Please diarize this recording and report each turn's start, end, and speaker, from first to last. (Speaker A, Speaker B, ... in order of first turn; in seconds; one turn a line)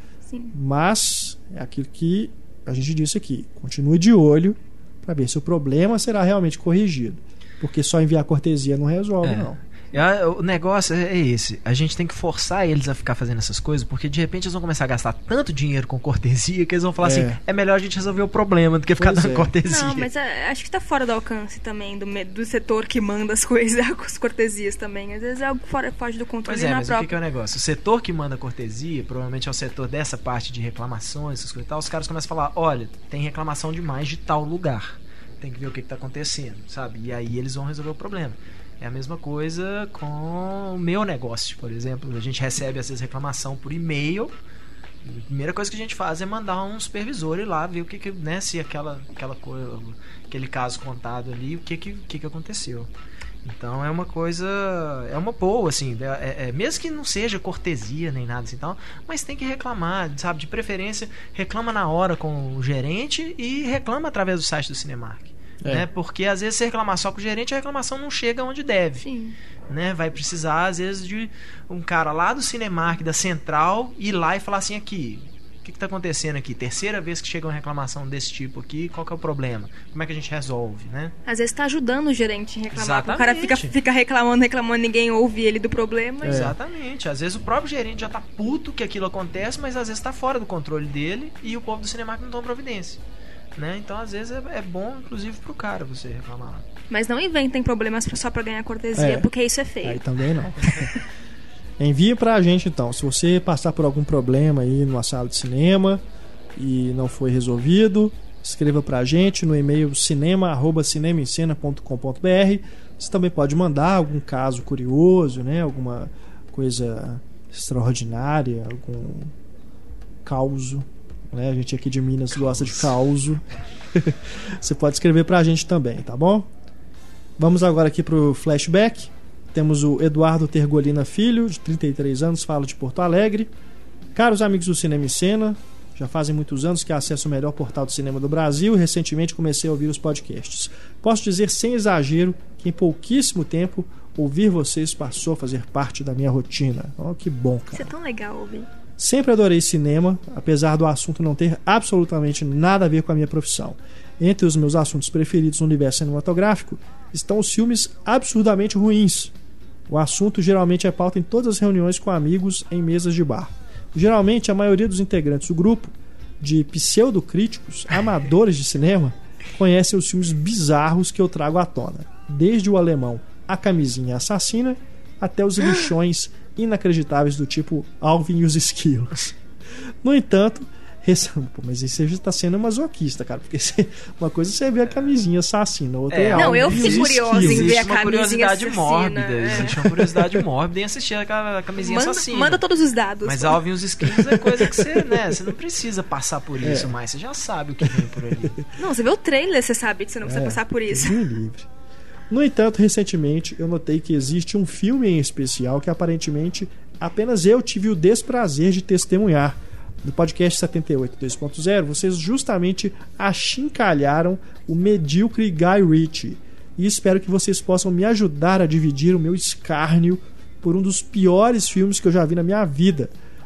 Speaker A: 0.5-9.6
Speaker B: 9.2-20.1
Speaker A: 17.0-17.4
Speaker A: 19.0-19.5
Speaker C: 19.7-27.2
Speaker B: 26.4-44.4
Speaker B: 45.0-52.9
Speaker B: 53.4-69.0
Speaker A: 65.6-65.9
Speaker C: 69.0-69.3
Speaker B: 69.7-81.1
Speaker C: 81.2-86.5
Speaker B: 82.7-83.7
Speaker A: 86.2-86.5
Speaker B: 86.2-93.0
Speaker B: 93.5-96.7
Speaker C: 96.9-100.0
Speaker A: 98.9-99.3
Speaker A: 99.8-101.0
Speaker A: 101.8-106.0
Speaker A: 106.5-119.3
Speaker A: 120.2-126.5
Speaker B: 122.3-123.0
Speaker A: 127.4-133.5
Speaker A: 134.1-147.9
Speaker C: 147.7-148.7
Speaker A: 149.0-159.3
Speaker A: 159.9-179.3
Speaker A: 180.0-187.8
Speaker B: 186.1-192.6
Speaker C: 186.3-189.7
Speaker A: 189.7-190.4
Speaker C: 191.8-193.6
Speaker B: 193.2-198.6
Speaker A: 194.2-195.2
Speaker A: 196.6-196.9
Speaker A: 197.8-198.6
Speaker C: 198.7-201.2
Speaker A: 200.2-201.7
Speaker A: 202.3-223.1